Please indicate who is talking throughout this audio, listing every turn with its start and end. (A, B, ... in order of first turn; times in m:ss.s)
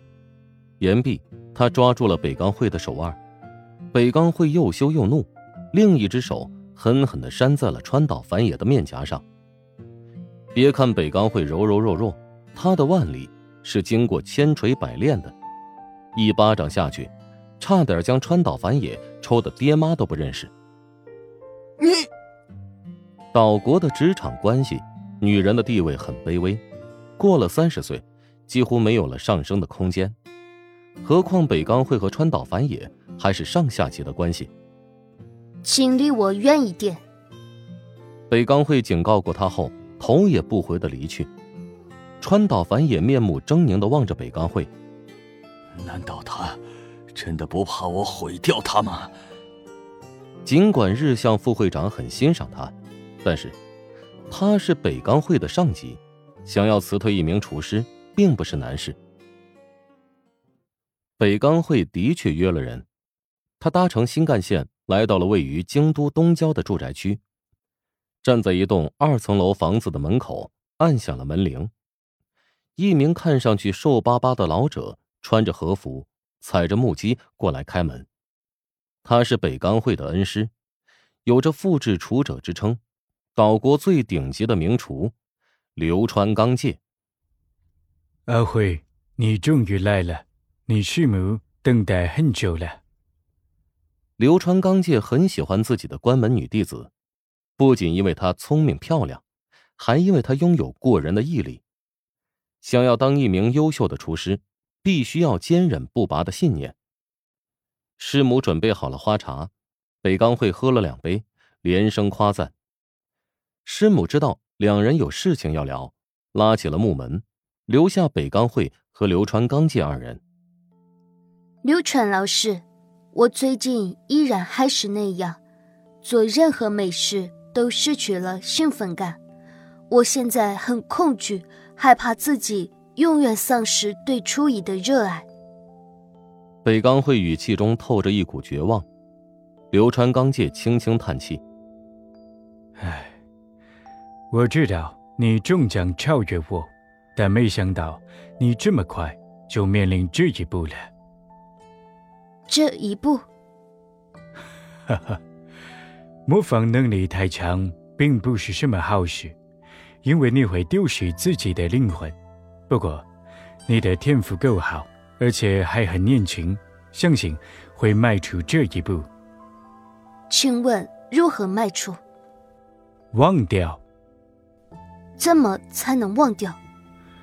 0:00.8-0:03.2 A
0:03.9-0:09.2 A
0:10.6-0:15.4 A
0:16.2-0:20.5 A
0:21.8-0:22.1 B
0:23.3-0:26.6 A
0:27.2-0:30.2 A
0:31.0-0:34.5 A
0:35.6-0:37.0 C
0:38.3-0:41.3 A
0:42.2-0:44.7 A
0:45.8-0:46.6 B
0:47.1-0:49.1 B
0:50.4-0:53.6 A
0:54.3-0:59.0 A
1:01.2-1:02.8 A
1:03.6-1:07.2 A
1:08.2-1:11.7 A
1:12.8-1:18.1 A
1:19.0-1:20.5 A
1:21.2-1:22.8 A
1:23.4-1:25.1 A
1:25.8-1:26.8 A
1:28.3-1:32.8 D
1:34.2-1:36.9 A
1:37.6-1:39.2 A
1:39.8-1:41.6 A
1:42.6-1:46.8 A
1:48.0-1:49.5 A
1:50.0-1:52.5 A
1:53.6-2:00.2 A
2:01.6-2:05.4 C
2:06.0-2:09.2 C
2:09.9-2:15.3 C
2:16.6-2:18.9 A
2:19.7-2:21.4 A
2:22.8-2:23.2 D
2:24.3-2:30.9 D
2:32.5-2:33.2 C
2:34.9-2:35.2 D
2:36.3-2:39.4 D
2:40.0-2:42.2 D
2:42.7-2:43.0 D
2:43.7-2:49.1 D
2:50.3-2:52.0 C
2:53.1-2:53.8 D
2:55.2-2:56.6 C